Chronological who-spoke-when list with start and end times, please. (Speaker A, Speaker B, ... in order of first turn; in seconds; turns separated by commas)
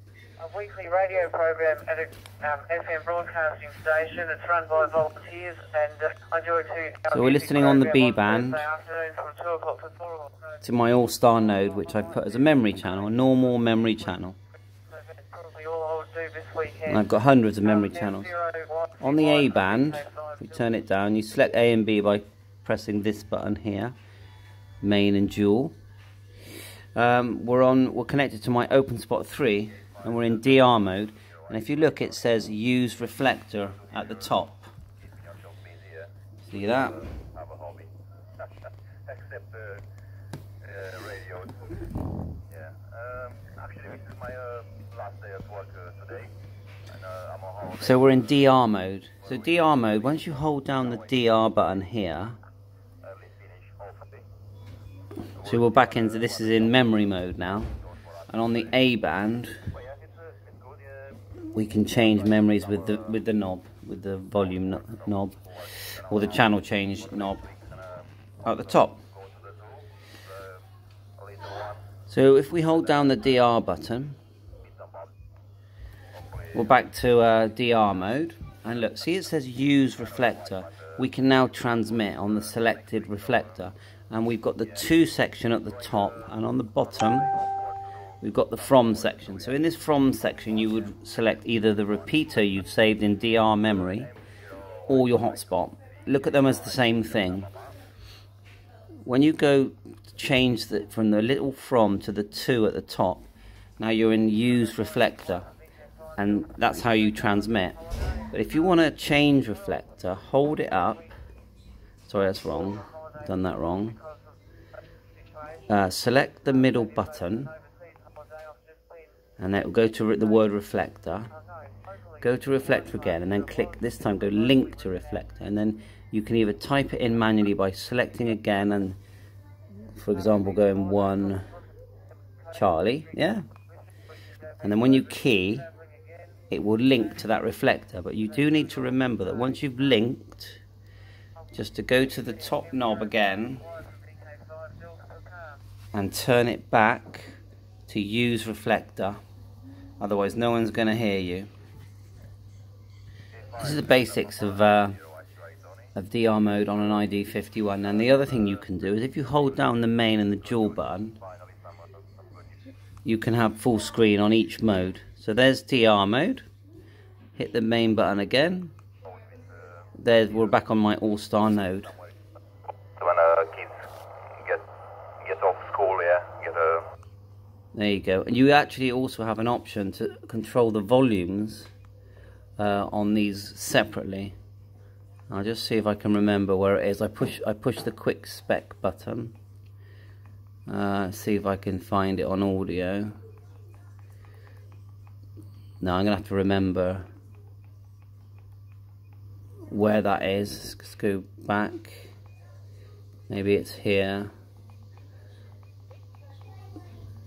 Speaker A: 0.4-10.3, Speaker B: 7.1-8.7, Speaker B: 10.6-14.4, Speaker A: 15.0-16.9, Speaker B: 16.8-18.4, Speaker A: 18.1-20.4, Speaker B: 19.0-23.9, Speaker B: 24.8-25.7, Speaker B: 26.9-34.7, Speaker C: 35.4-36.0, Speaker B: 36.4-37.1, Speaker C: 37.3-37.9, Speaker C: 39.1-39.8, Speaker C: 40.7-41.6, Speaker C: 42.5-46.3, Speaker C: 47.1-48.0, Speaker B: 47.8-52.4, Speaker C: 53.1-54.3, Speaker B: 55.4-57.7, Speaker C: 55.4-56.5, Speaker B: 58.3-59.6, Speaker C: 59.8-60.8, Speaker B: 61.5-67.5, Speaker C: 67.5-67.8, Speaker B: 68.4-69.0, Speaker C: 69.2-69.8, Speaker C: 71.2-71.8, Speaker B: 72.1-74.2, Speaker B: 76.5-87.4, Speaker B: 88.2-94.1, Speaker B: 94.9-97.5, Speaker B: 99.0-103.3, Speaker B: 103.8-105.5, Speaker B: 106.2-107.8, Speaker B: 108.3-111.2, Speaker B: 112.1-114.0, Speaker B: 115.7-117.5, Speaker A: 116.8-119.0, Speaker B: 119.4-121.3, Speaker A: 122.2-122.6, Speaker B: 122.2-129.0, Speaker B: 129.9-131.5, Speaker B: 132.5-133.4, Speaker A: 134.6-134.9, Speaker B: 134.6-135.7, Speaker A: 135.7-136.2, Speaker B: 136.5-140.6, Speaker B: 141.5-143.6, Speaker A: 143.6-145.6, Speaker B: 145.9-149.2, Speaker B: 150.0-151.5, Speaker C: 153.5-154.3, Speaker B: 153.6-155.0, Speaker B: 155.9-161.2, Speaker C: 161.3-161.7, Speaker B: 163.0-166.5, Speaker B: 167.3-168.7, Speaker B: 170.0-171.9, Speaker C: 173.0-173.7, Speaker C: 174.4-174.6, Speaker C: 175.2-176.8, Speaker B: 177.7-181.7, Speaker B: 182.6-184.3, Speaker B: 185.3-189.3, Speaker B: 190.7-193.2, Speaker B: 195.8-197.1, Speaker B: 199.7-202.1, Speaker B: 203.3-204.3